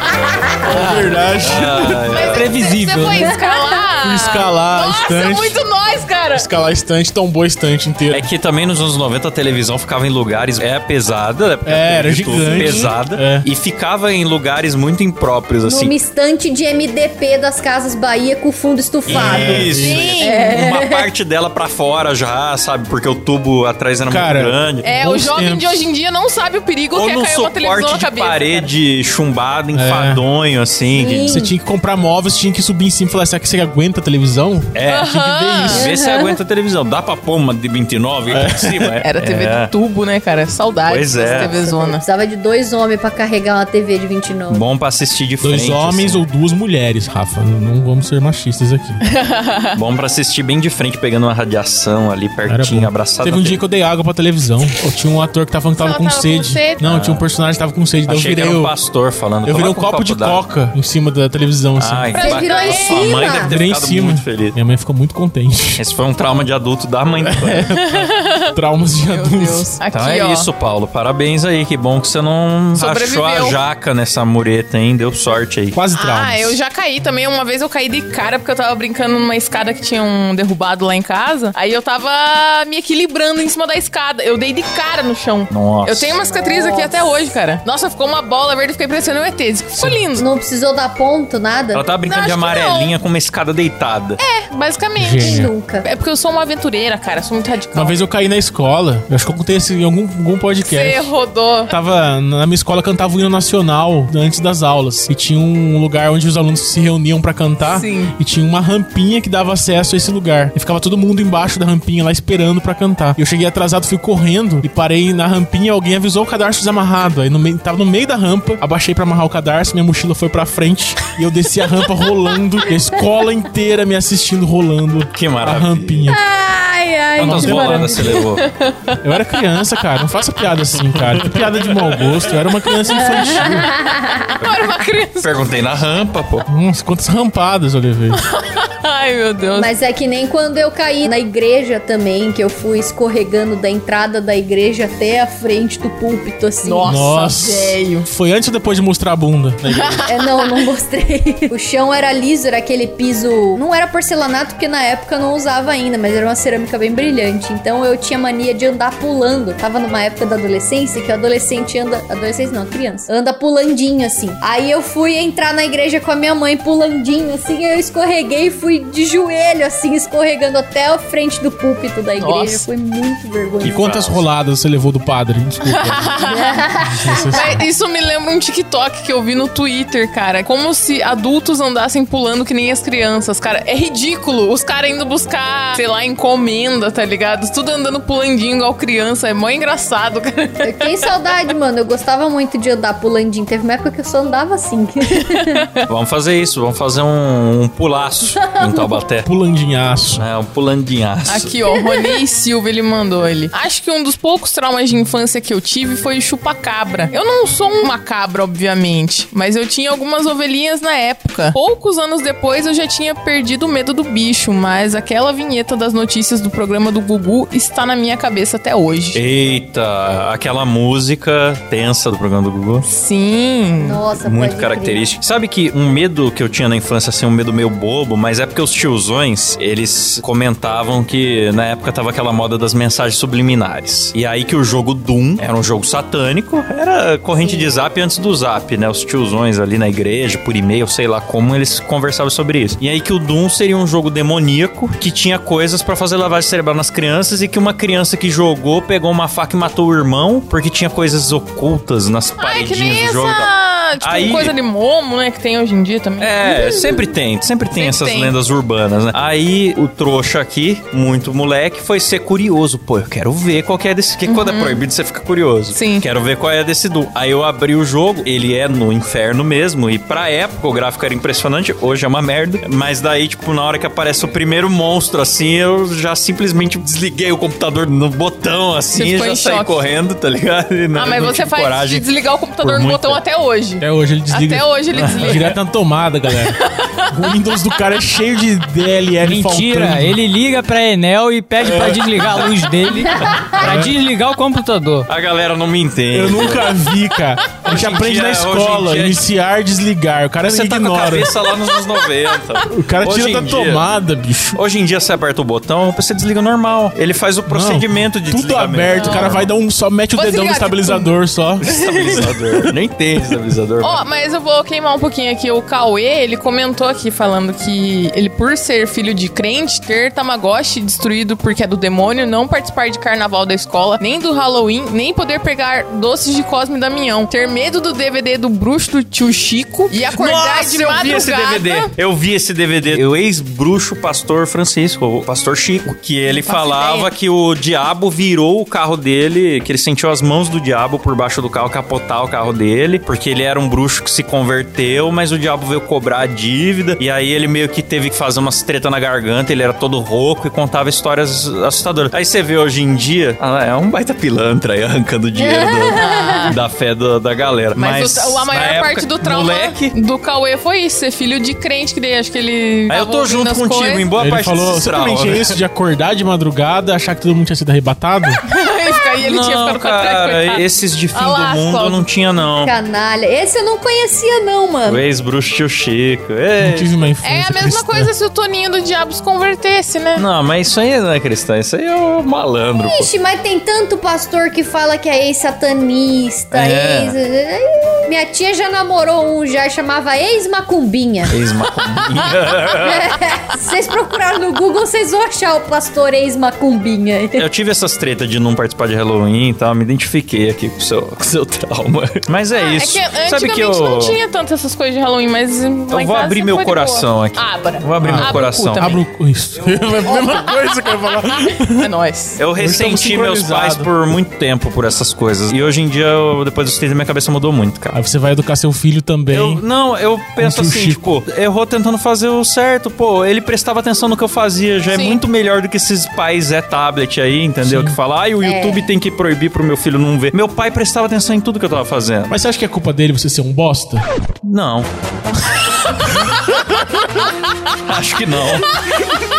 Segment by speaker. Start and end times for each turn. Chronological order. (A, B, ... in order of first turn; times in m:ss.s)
0:00.6-0:02.3 A
0:00.7-0:01.1 B
0:01.4-0:02.5 C
0:02.1-0:06.5 D
0:02.2-0:03.3 B
0:03.2-0:03.8 E
0:04.0-0:05.6 A
0:06.3-0:08.3 A
0:08.1-0:15.9 C
0:11.6-0:13.5 A
0:12.5-0:12.9 D
0:15.6-0:21.1 E
0:19.1-0:20.0 A
0:19.1-0:24.8 C
0:19.8-0:20.5 D
0:24.1-0:25.9 A
0:24.8-0:28.7 D
0:26.9-0:31.4 C
0:29.7-0:30.2 A
0:30.9-0:31.6 E
0:31.2-0:35.9 A
0:34.7-0:35.1 C
0:34.9-0:35.8 D
0:35.6-0:39.7 C
0:35.7-0:36.3 E
0:38.3-0:39.0 A
0:39.0-0:42.0 D
0:40.9-0:41.5 C
0:41.1-0:44.6 E
0:44.5-0:46.2 C
0:45.4-0:49.0 A
0:49.0-0:49.8 D
0:49.7-0:53.6 C
0:52.4-0:58.7 A
0:55.8-0:56.8 D
0:56.8-0:57.2 C
0:58.1-1:00.4 C
0:59.4-1:02.1 A
1:01.8-1:04.6 C
1:02.1-1:03.3 D
1:02.1-1:03.5 E
1:03.3-1:05.8 A
1:05.8-1:07.7 C
1:07.2-1:09.7 A
1:07.7-1:08.6 D
1:09.1-1:10.5 D
1:09.9-1:15.8 C
1:12.7-1:13.6 D
1:15.7-1:16.6 A
1:15.9-1:30.2 D
1:25.5-1:26.2 C
1:26.4-1:27.3 E
1:29.8-1:30.0 A
1:30.2-1:31.8 E
1:31.7-1:34.2 C
1:32.0-1:33.0 D
1:34.2-1:38.0 D
1:35.0-1:35.5 A
1:35.2-1:35.9 E
1:37.7-1:41.1 A
1:40.6-1:41.7 D
1:41.7-2:06.2 A
1:47.6-1:48.1 D
2:05.1-2:06.1 C
2:06.1-2:08.2 E
2:07.2-2:08.1 A
2:07.2-2:08.4 C
2:08.2-2:10.0 D
2:09.0-2:13.7 A
2:11.0-2:12.2 C
2:12.9-2:14.3 E
2:13.0-2:15.4 D
2:14.4-2:16.5 C
2:16.5-2:18.2 A
2:18.1-2:19.7 D
2:19.5-2:27.0 E
2:26.6-2:28.1 D
2:26.8-2:30.0 A
2:29.7-2:30.5 D
2:30.1-2:53.9 E
2:52.2-2:52.6 D
2:53.6-2:54.2 C
2:53.6-2:56.2 A
2:55.7-2:56.7 D
2:56.2-2:57.6 E
2:56.8-2:57.6 A
2:57.3-3:10.8 D
3:10.6-3:15.7 E
3:15.2-3:15.8 D
3:15.9-3:19.3 C
3:18.6-3:19.0 E
3:19.2-3:20.2 A
3:20.2-3:21.5 C
3:21.3-3:39.2 D
3:39.1-3:42.8 C
3:42.8-3:44.0 D
3:43.8-3:45.0 E
3:44.1-4:14.5 C
3:57.3-3:57.7 E
4:12.4-4:17.0 D
4:16.2-4:42.0 C
4:17.7-4:18.3 D
4:24.2-4:24.8 D
4:25.7-4:26.0 D
4:38.9-4:39.8 D
4:40.9-4:45.6 D
4:42.6-4:43.2 C
4:43.8-4:46.6 A
4:44.9-4:45.5 C
4:46.3-4:47.1 D
4:47.1-4:50.2 A
4:49.2-4:55.1 B
4:51.6-4:52.6 C
4:53.0-4:53.6 E
4:53.2-4:53.9 C
4:53.6-4:53.9 A
4:55.1-4:56.7 C
4:56.1-5:01.3 A
4:57.6-4:59.2 C
5:00.4-5:03.8 C
5:01.7-5:02.6 D
5:02.7-5:04.6 A
5:04.5-5:09.5 C
5:07.4-5:12.7 A
5:08.9-5:09.4 D
5:10.1-5:11.1 D
5:11.6-5:14.0 C
5:11.6-5:12.3 D
5:13.8-5:31.9 D
5:30.1-6:00.0 C
5:36.2-5:37.1 D
5:55.3-5:56.5 E
5:56.0-5:56.6 D
5:57.7-6:04.1 D
6:02.9-6:05.6 C
6:04.2-6:08.4 A
6:08.4-6:12.0 D
6:09.2-6:12.7 C
6:12.6-6:15.0 E
6:14.8-6:17.0 C
6:16.6-6:18.1 A
6:17.2-6:20.2 D
6:20.2-6:23.1 C
6:22.8-6:31.4 E
6:26.5-6:27.2 C
6:31.3-6:33.1 C
6:32.8-6:37.4 E
6:37.4-6:44.2 C
6:42.6-6:49.0 D
6:45.9-6:49.0 C
6:48.0-6:51.9 A
6:50.0-6:50.6 D
6:51.2-6:52.4 D
6:52.4-6:58.0 C
6:52.6-6:53.9 A
6:57.9-6:59.6 A
6:59.3-7:12.3 C
7:00.4-7:01.0 A
7:04.9-7:05.2 D
7:07.6-7:08.0 A
7:08.4-7:08.9 E
7:12.3-7:14.0 A
7:14.4-7:14.9 C
7:17.8-7:18.8 C